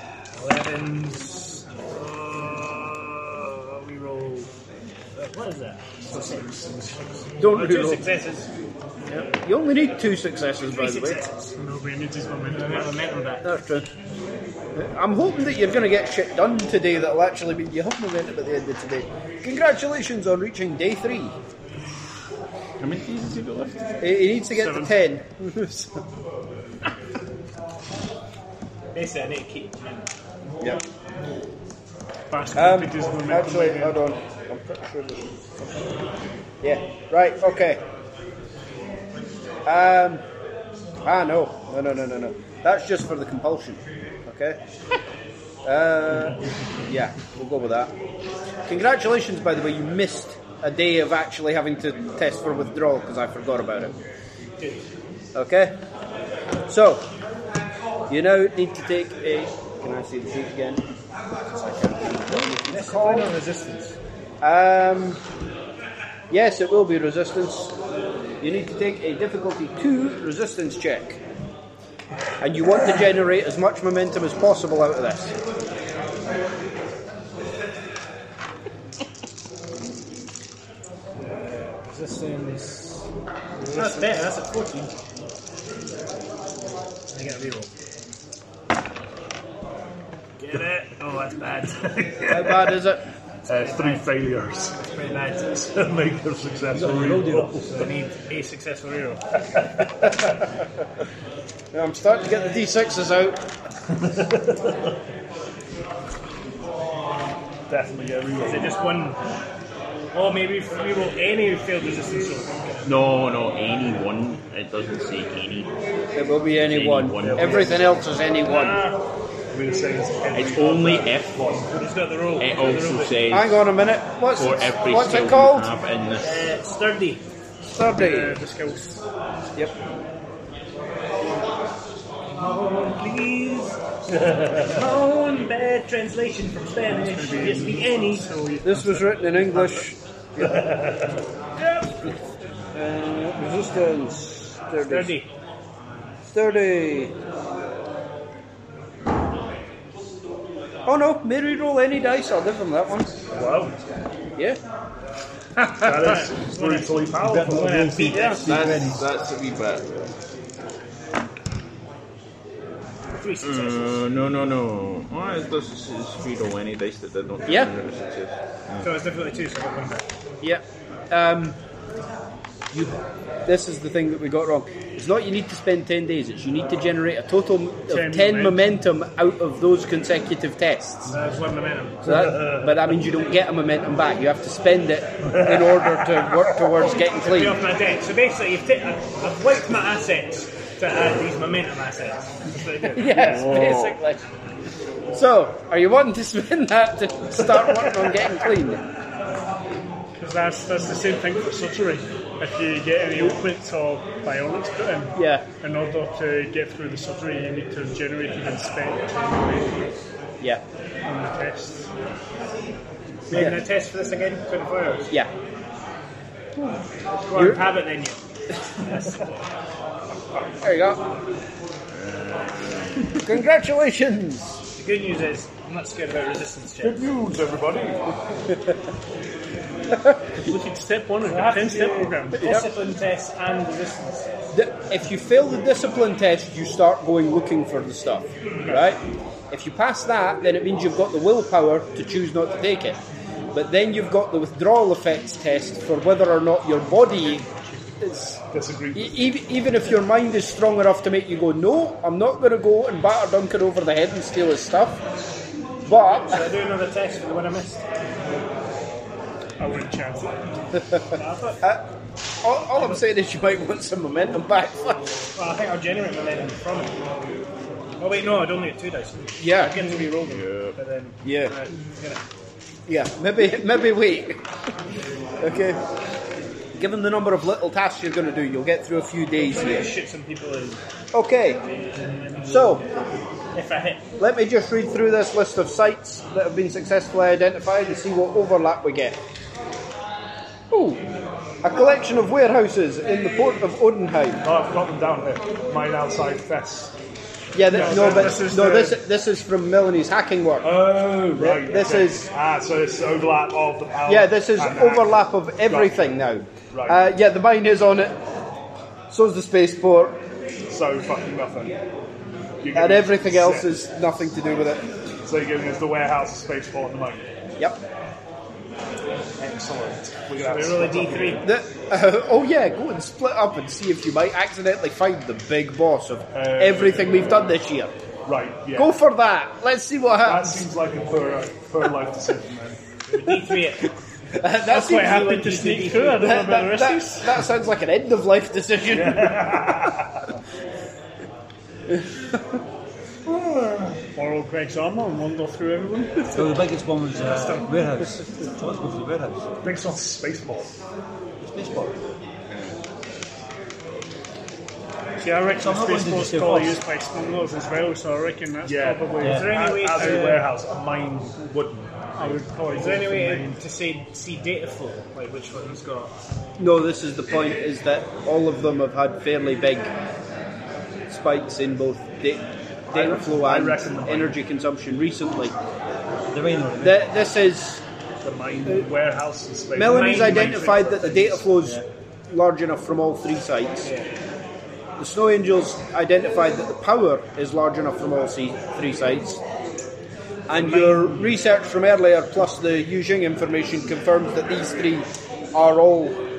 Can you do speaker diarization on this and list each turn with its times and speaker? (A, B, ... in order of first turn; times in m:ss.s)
0:00.4-0:04.5 A
0:05.2-0:08.5 A
0:07.4-0:08.0 B
0:09.1-0:11.2 B
0:10.7-0:11.5 A
0:11.6-0:13.0 C
0:12.5-0:13.5 A
0:13.4-0:13.9 B
0:14.8-0:21.4 B
0:22.8-0:23.8 D
0:24.0-0:26.0 B
0:24.6-0:24.9 C
0:28.9-0:30.1 A
0:32.3-0:34.0 C
0:32.5-0:35.8 B
0:36.6-0:37.8 B
0:39.7-0:40.2 B
0:41.0-0:44.6 B
0:45.6-0:47.9 B
0:48.7-0:54.0 B
0:55.4-0:55.8 B
0:56.7-0:57.1 B
0:58.1-1:00.8 B
1:01.4-1:03.4 B
1:02.3-1:04.0 A
1:04.4-1:05.2 B
1:06.3-1:07.8 B
1:08.4-1:11.2 B
1:12.4-1:15.3 B
1:21.2-1:23.1 A
1:23.6-1:25.0 A
1:27.1-1:27.7 A
1:30.4-1:32.8 A
1:32.3-1:33.0 B
1:33.5-1:34.8 E
1:33.5-1:34.1 A
1:34.8-1:35.8 A
1:35.6-1:37.9 E
1:36.7-1:37.9 F
1:37.7-1:39.4 A
1:41.7-1:43.4 B
1:47.7-1:48.8 E
1:48.4-1:49.2 A
1:50.1-1:52.9 A
1:52.8-1:55.7 D
1:56.2-1:58.8 B
1:56.7-1:57.7 D
1:57.2-1:57.8 E
1:58.4-1:59.0 A
1:59.5-2:01.9 E
2:00.3-2:01.4 D
2:01.7-2:03.3 A
2:02.4-2:03.6 D
2:03.3-2:05.8 B
2:04.4-2:06.5 D
2:06.2-2:07.2 A
2:07.7-2:08.4 B
2:07.8-2:09.0 C
2:12.3-2:18.3 A
2:16.9-2:19.7 C
2:18.6-2:20.7 B
2:21.7-2:22.2 B
2:22.7-2:25.2 B
2:24.8-2:25.3 A
2:26.3-2:27.2 B
2:30.9-2:33.2 B
2:33.3-2:33.8 E
2:35.8-2:37.8 E
2:35.8-2:38.5 A
2:37.2-2:39.0 F
2:38.5-2:39.9 D
2:43.1-2:44.1 A
2:43.4-2:48.9 D
2:47.5-2:47.7 B
2:48.8-2:50.1 A
2:50.4-2:51.6 B
2:52.7-3:01.1 B
2:57.9-2:58.6 C
3:01.1-3:02.3 A
3:02.0-3:07.6 B
3:06.9-3:13.5 A
3:12.9-3:14.2 B
3:13.2-3:14.0 D
3:15.1-3:18.8 B
3:20.2-3:29.8 C
3:25.2-3:25.5 B
3:31.0-3:31.9 C
3:33.3-3:35.1 A
3:33.3-3:33.6 B
3:37.2-3:38.2 A
3:37.3-3:37.6 B
3:38.8-3:39.3 A
3:40.6-3:41.0 B
3:42.0-3:43.2 D
3:43.2-3:44.6 B
3:44.8-3:47.1 A
3:46.8-3:48.0 E
3:50.4-3:52.5 C
3:51.2-3:54.3 A
3:52.4-3:52.7 B
3:54.5-4:03.0 B
4:03.5-4:07.5 B
4:07.5-4:08.0 C
4:08.0-4:08.4 B
4:08.5-4:09.3 E
4:09.0-4:15.0 B
4:15.8-4:16.4 B
4:16.2-4:17.8 A
4:19.6-4:20.7 C
4:21.1-4:21.6 A
4:21.6-4:21.9 B
4:22.4-4:25.1 B
4:25.4-4:27.0 A
4:28.0-4:32.2 A
4:29.4-4:30.0 B
4:30.2-4:30.8 D
4:31.2-4:31.6 B
4:32.9-4:34.4 B
4:35.4-4:35.8 B
4:36.8-4:39.9 B
4:39.4-4:40.8 A
4:41.1-4:41.6 B
4:41.7-4:42.8 A
4:42.4-4:42.8 B
4:43.5-4:44.0 A
4:44.2-4:49.2 B
4:50.7-4:51.0 B
4:51.6-4:54.4 B
4:54.4-4:57.0 E
4:57.5-5:00.8 B
4:57.7-4:58.6 E
4:57.7-4:59.0 C
5:00.6-5:06.2 E
5:01.3-5:02.3 B
5:04.1-5:08.2 B
5:06.7-5:07.0 E
5:09.1-5:10.2 B
5:10.7-5:11.8 E
5:12.6-5:13.7 E
5:12.7-5:14.9 B
5:15.2-5:17.3 E
5:19.4-5:21.5 E
5:20.3-5:21.5 A
5:21.4-5:27.9 B
5:26.3-5:27.5 E
5:28.2-5:29.0 E
5:28.7-5:30.7 B
5:30.2-5:32.8 E
5:33.1-5:33.9 A
5:34.4-5:35.2 B
5:34.7-5:37.4 C
5:34.7-5:36.3 A
5:36.2-5:39.9 B
5:38.9-5:40.2 E
5:41.9-5:42.6 B
5:43.3-5:44.1 E
5:44.2-5:46.5 C
5:46.3-5:49.4 F
5:47.3-5:47.6 E
5:49.6-5:50.7 E
5:51.4-5:52.0 F
5:55.2-6:00.4 C
5:55.6-5:56.8 F
5:58.6-6:02.4 E
5:59.2-5:59.5 F
5:59.2-6:00.5 A
6:02.2-6:03.6 C
6:02.7-6:06.1 A
6:06.6-6:09.9 B
6:11.1-6:15.6 B
6:12.9-6:14.4 E
6:16.3-6:17.1 F
6:16.8-6:17.8 B
6:18.2-6:20.8 E
6:19.8-6:23.9 B
6:19.8-6:21.5 A
6:23.8-6:24.1 A
6:25.0-6:29.4 B
6:30.5-6:36.2 B
6:30.5-6:31.4 A